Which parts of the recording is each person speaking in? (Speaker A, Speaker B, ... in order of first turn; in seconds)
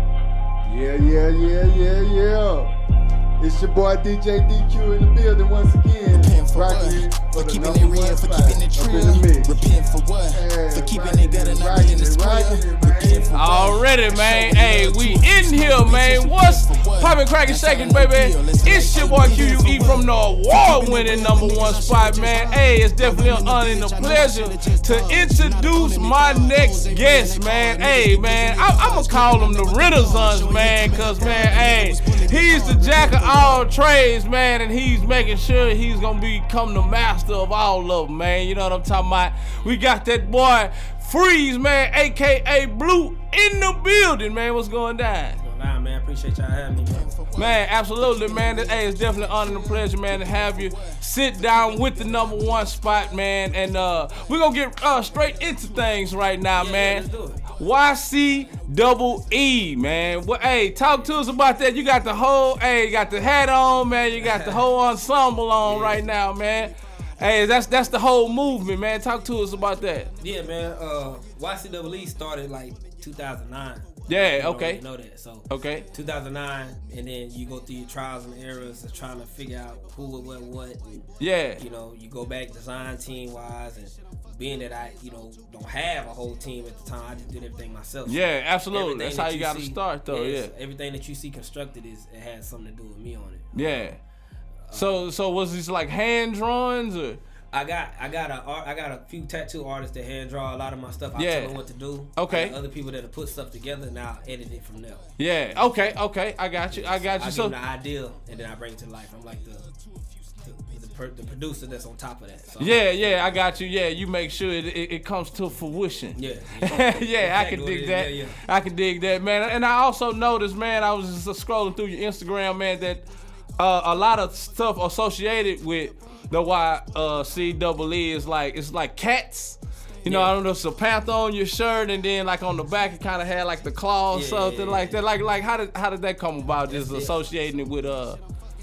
Speaker A: 0.6-2.7, 3.4-9.6, 10.3-13.7
Speaker B: 6.1-33.7, 46.9-52.6
Speaker C: 13.3-45.4, 47.3-70.1, 74.1-74.8, 75.5-75.8, 81.2-81.6, 88.0-90.5, 93.5-94.0, 94.7-97.2, 101.2-101.6, 102.2-102.5, 105.2-107.5, 112.6-123.0, 123.6-138.2
Speaker D: 45.4-47.1, 56.5-57.4, 60.9-61.1, 64.2-64.7, 65.6-66.0, 70.2-81.1, 81.6-93.5, 94.7-95.1, 97.5-105.8, 106.7-109.7, 110.4-113.2, 116.1-118.4, 130.1-130.3, 134.1-135.0, 136.7-137.2